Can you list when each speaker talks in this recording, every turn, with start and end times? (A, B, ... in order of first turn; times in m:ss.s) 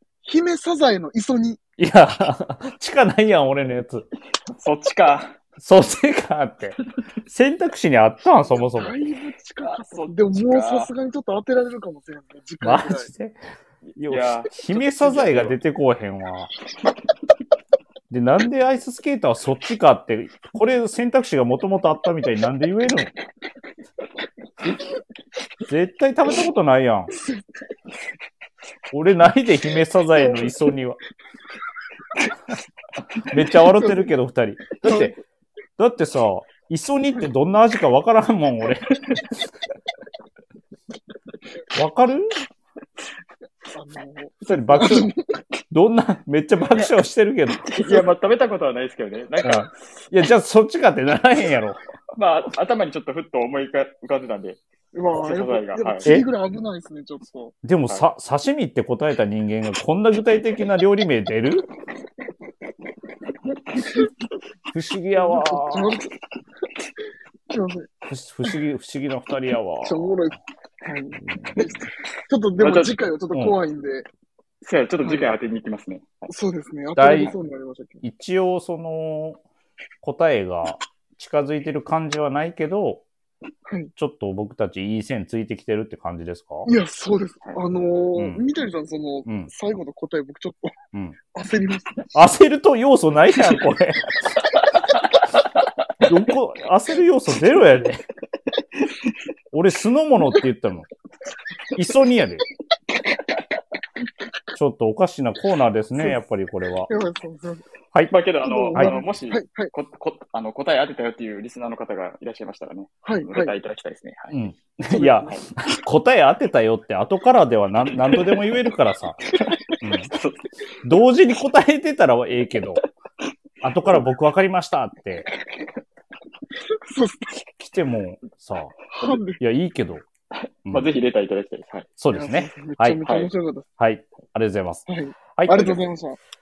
0:00.2-0:01.6 A
0:01.8-0:04.1 B
0:04.5-0:05.4 C
0:05.6-0:09.0 B
0:08.5-0:13.1 A
0:09.6-0:10.9 C
0:12.6-0:13.4 B
0:13.9-0:15.6 C
0:14.0-0:16.5 B
0:18.1-0:23.1 B
0:25.6-0:27.1 B
0:28.9-0:31.0 B
0:30.2-0:30.5 A
0:33.3-0:35.2 B
0:33.7-0:34.1 A
0:34.8-0:35.1 A
0:35.8-0:39.0 B
0:41.7-0:42.4 B
0:43.7-0:45.2 A
0:44.4-0:45.1 B
0:45.7-0:47.7 B
0:47.6-0:50.0 C
0:49.4-0:51.8 B
0:52.1-0:54.6 C
0:54.9-0:57.5 A
0:55.2-0:56.2 C
0:57.6-1:01.7 B
1:04.7-1:06.0 B
1:05.1-1:06.1 A
1:07.5-1:07.9 A
1:08.0-1:10.3 B
1:09.8-1:14.1 A
1:11.2-1:11.6 B
1:12.6-1:13.0 C
1:14.6-1:16.3 C
1:15.0-1:15.4 A
1:16.3-1:18.0 A
1:17.0-1:17.3 B
1:18.0-1:19.4 B
1:20.0-1:23.0 B
1:23.6-1:23.9 A
1:24.0-1:26.7 B
1:26.6-1:30.8 A
1:28.1-1:28.4 B
1:29.2-1:29.5 B
1:30.9-1:31.2 B
1:31.3-1:32.1 A
1:32.1-1:34.4 B
1:36.0-1:38.0 B
1:39.5-1:40.9 B
1:41.7-1:42.4 B
1:44.5-1:46.9 B
1:46.9-1:47.6 A
1:48.1-1:54.4 C
1:48.4-1:49.7 A
1:53.0-1:53.5 A
1:54.3-1:59.2 B
1:54.9-1:55.4 A
1:58.1-1:58.4 C
1:59.4-1:59.8 A
1:59.8-2:00.1 B
2:00.1-2:00.5 C
2:00.8-2:02.8 B
2:03.6-2:05.3 B
2:06.7-2:07.4 A
2:07.6-2:08.8 B
2:08.9-2:09.4 A
2:09.3-2:10.0 B
2:10.3-2:11.9 C
2:12.0-2:13.0 B
2:12.1-2:13.7 A
2:13.0-2:13.3 C
2:13.8-2:15.7 B
2:14.9-2:16.2 A
2:15.5-2:15.8 C